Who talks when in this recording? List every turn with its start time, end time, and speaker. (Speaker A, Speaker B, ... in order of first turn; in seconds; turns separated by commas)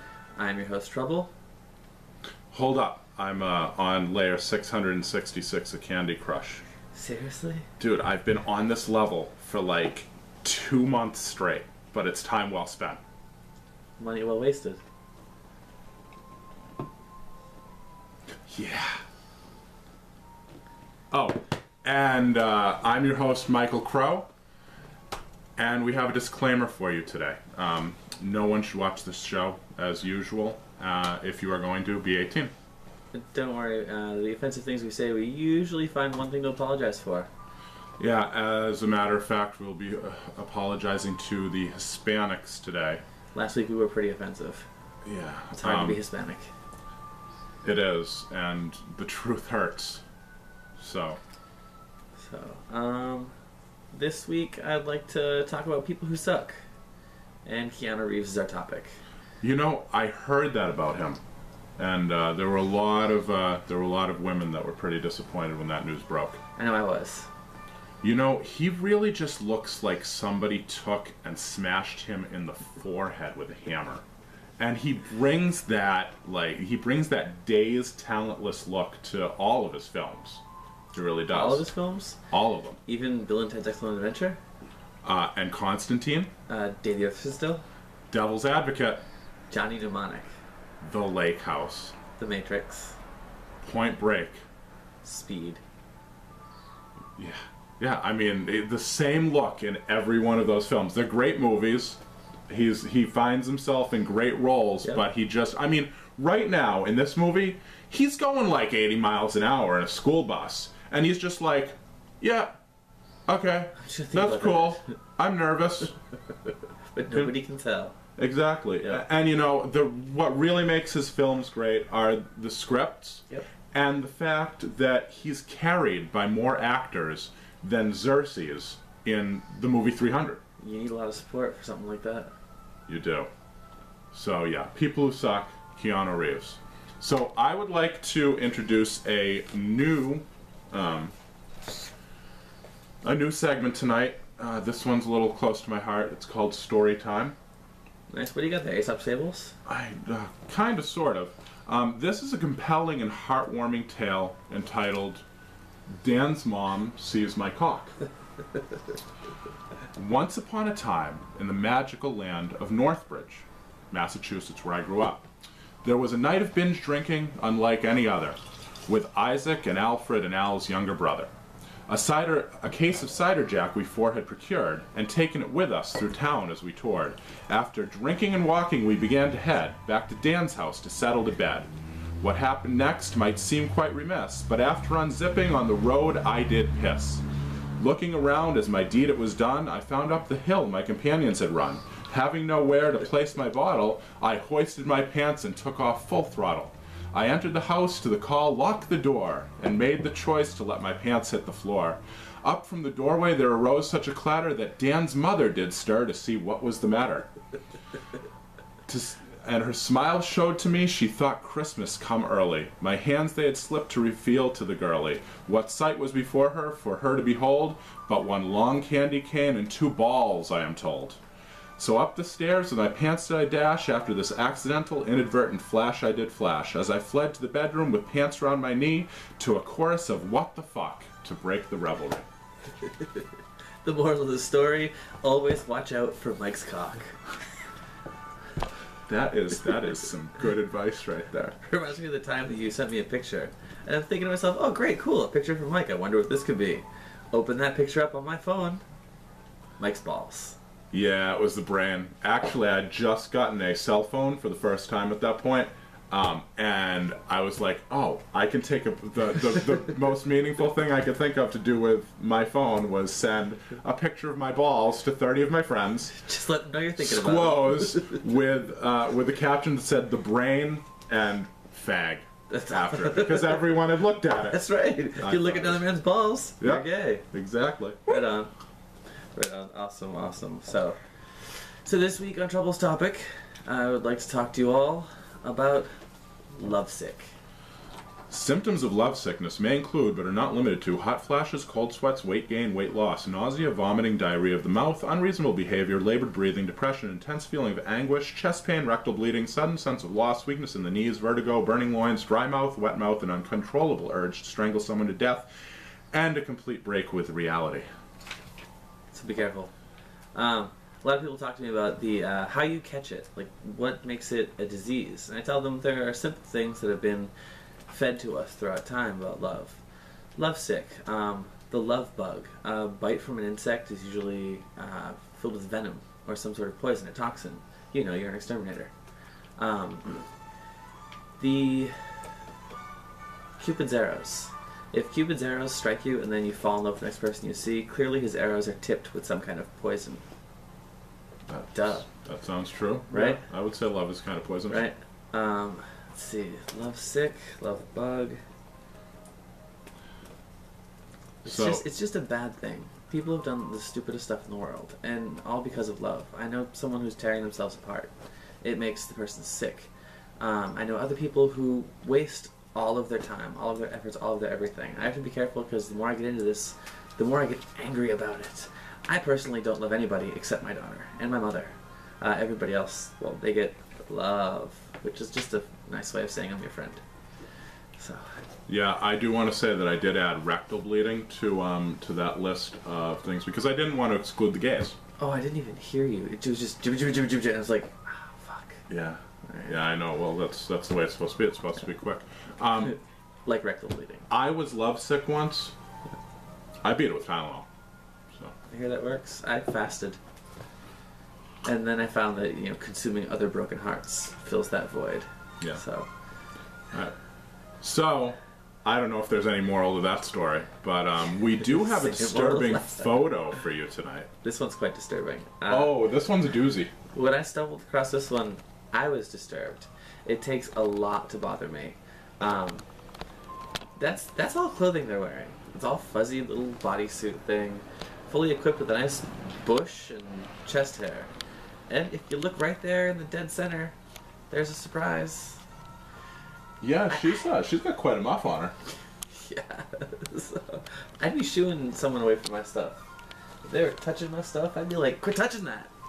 Speaker A: 0.3-1.3, Speaker B: 2.5-6.6, Speaker A: 6.9-7.7, Speaker B: 7.8-13.0, Speaker A: 14.0-14.8, Speaker B: 18.5-19.0, Speaker B: 21.1-24.3, Speaker B: 25.6-32.5, Speaker A: 33.1-37.3, Speaker B: 38.0-43.0, Speaker A: 43.3-44.7, Speaker B: 45.0-46.0, Speaker A: 45.5-46.5, Speaker B: 47.6-50.0, Speaker B: 50.8-51.2, Speaker A: 52.2-53.3, Speaker A: 53.9-56.6, Speaker A: 57.4-59.0, Speaker B: 59.4-61.2, Speaker B: 61.8-66.4, Speaker A: 66.6-67.3, Speaker B: 68.0-74.0, Speaker B: 74.6-80.4, Speaker B: 80.9-81.7, Speaker A: 81.3-82.2, Speaker B: 82.3-82.8, Speaker A: 82.9-84.4, Speaker B: 85.0-86.3, Speaker A: 86.5-87.6, Speaker B: 88.1-89.0, Speaker A: 89.5-90.3, Speaker B: 90.8-91.9, Speaker A: 92.2-93.0, Speaker B: 93.6-94.4, Speaker A: 95.0-95.6, Speaker B: 97.2-112.5, Speaker B: 113.3-115.9, Speaker A: 113.8-114.8, Speaker A: 116.9-117.9, Speaker B: 117.0-117.3, Speaker B: 118.2-130.4, Speaker A: 130.6-132.3, Speaker B: 132.9-133.3, Speaker B: 134.1-141.1, Speaker B: 143.0-147.3, Speaker A: 148.1-149.6, Speaker B: 149.7-155.2, Speaker B: 155.9-157.9, Speaker B: 159.9-165.2, Speaker B: 165.8-171.3, Speaker B: 171.9-181.7, Speaker B: 182.2-187.2, Speaker B: 187.8-207.3, Speaker B: 208.9-221.2, Speaker B: 221.8-232.2, Speaker A: 232.8-233.2, Speaker A: 233.8-237.2, Speaker B: 239.1-241.6, Speaker A: 241.6-248.8, Speaker A: 249.8-250.6, Speaker B: 250.9-266.2, Speaker A: 266.1-268.2, Speaker B: 266.9-274.6, Speaker A: 272.5-277.2, Speaker B: 275.1-275.9, Speaker B: 276.6-278.2, Speaker A: 278.1-278.5, Speaker A: 279.3-285.9, Speaker A: 286.6-287.3, Speaker B: 288.3-305.5, Speaker B: 306.1-307.9, Speaker A: 309.1-309.7, Speaker A: 310.3-317.3, Speaker A: 317.9-319.8, Speaker A: 320.4-328.9, Speaker A: 329.6-330.2, Speaker A: 331.4-331.9, Speaker A: 333.6-340.2, Speaker B: 341.5-344.8, Speaker A: 341.7-342.1, Speaker A: 343.1-343.4, Speaker A: 344.7-348.4, Speaker A: 351.4-358.1, Speaker B: 351.4-351.8, Speaker A: 358.6-377.0, Speaker A: 378.0-378.4, Speaker B: 378.7-384.9, Speaker A: 385.2-388.9, Speaker B: 388.9-393.0, Speaker A: 389.4-389.8, Speaker A: 393.4-394.3, Speaker B: 394.3-395.7, Speaker B: 396.8-397.7, Speaker A: 398.7-400.2, Speaker A: 401.6-406.1, Speaker B: 407.8-414.3, Speaker A: 411.6-413.4, Speaker A: 414.4-416.0, Speaker B: 415.7-416.9, Speaker A: 417.1-422.8, Speaker A: 424.0-431.3, Speaker A: 431.9-433.9, Speaker A: 434.5-435.6, Speaker B: 436.8-438.8, Speaker A: 439.3-443.0, Speaker A: 443.6-445.9